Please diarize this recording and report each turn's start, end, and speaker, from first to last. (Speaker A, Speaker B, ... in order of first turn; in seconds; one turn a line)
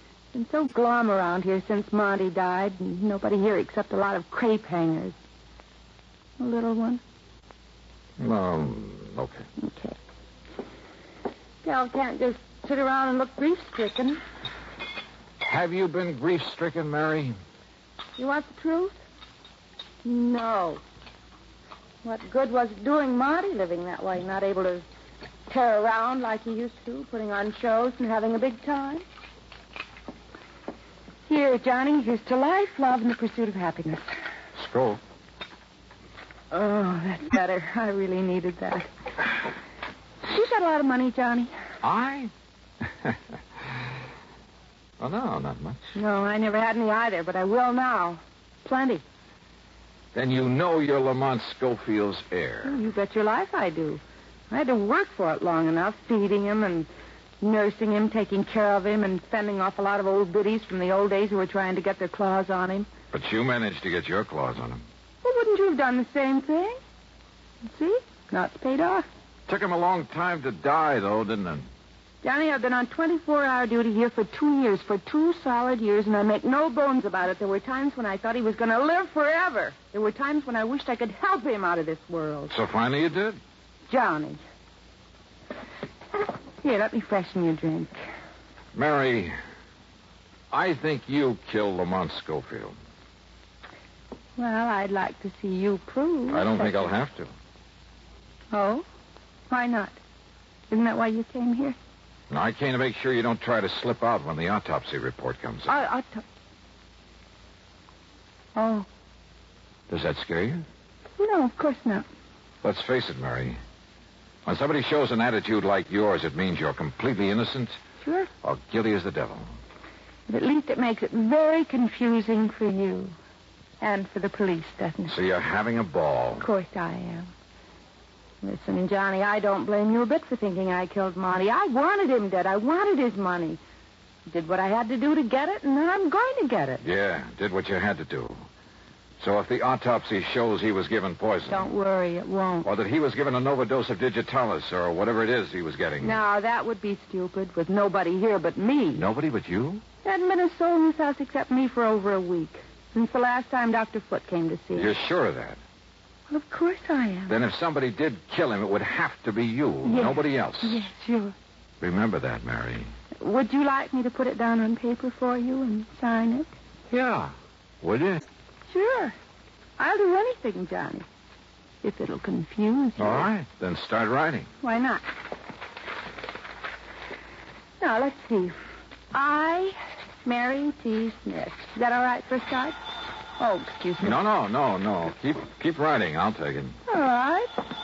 Speaker A: 0.3-5.2
Speaker A: 6.4-7.0
Speaker B: 8.2-9.4
Speaker A: 9.6-9.9
Speaker A: 11.6-14.2
Speaker B: 15.4-17.3
Speaker A: 18.2-19.0
Speaker A: 20.0-20.8
Speaker A: 22.0-24.9
Speaker A: 25.5-29.0
Speaker A: 31.3-34.1
Speaker B: 34.5-35.0
Speaker A: 36.5-38.9
Speaker A: 40.2-41.5
Speaker B: 41.8-42.3
Speaker B: 45.0-46.0
Speaker A: 45.9-49.0
Speaker B: 50.1-52.8
Speaker A: 52.6-56.9
Speaker A: 57.4-62.9
Speaker B: 63.1-64.8
Speaker A: 65.2-66.8
Speaker A: 67.6-69.1
Speaker B: 69.5-71.7
Speaker A: 72.2-82.5
Speaker B: 82.5-83.4
Speaker A: 83.9-84.4
Speaker A: 86.6-88.0
Speaker B: 88.7-89.3
Speaker B: 90.5-92.8
Speaker A: 94.4-96.9
Speaker B: 96.3-97.3
Speaker A: 98.5-98.8
Speaker A: 99.5-100.0
Speaker A: 100.7-101.8
Speaker B: 102.3-105.8
Speaker A: 105.7-106.2
Speaker A: 108.5-108.9
Speaker B: 109.9-110.6
Speaker A: 111.2-112.1
Speaker B: 112.6-113.6
Speaker B: 114.5-117.8
Speaker A: 118.0-118.3
Speaker B: 118.4-119.5
Speaker A: 120.3-123.2
Speaker A: 123.8-125.1
Speaker B: 125.1-126.5
Speaker A: 126.4-127.3
Speaker A: 128.4-133.6
Speaker A: 134.3-136.8
Speaker B: 136.8-138.4
Speaker B: 139.2-141.7
Speaker A: 141.5-142.7
Speaker B: 142.6-146.2
Speaker A: 146.0-149.0
Speaker B: 148.9-149.8
Speaker A: 150.0-154.9
Speaker B: 154.7-155.6
Speaker A: 156.3-157.3
Speaker B: 157.3-160.8
Speaker A: 159.8-161.3
Speaker B: 161.8-162.9
Speaker A: 163.2-166.5
Speaker B: 166.9-168.2
Speaker A: 168.7-169.2
Speaker A: 169.8-171.1
Speaker A: 171.8-173.3
Speaker B: 173.0-174.5
Speaker A: 174.6-175.0
Speaker A: 177.8-178.6
Speaker A: 179.1-182.8
Speaker A: 183.4-184.2
Speaker B: 184.0-186.8
Speaker A: 186.9-187.5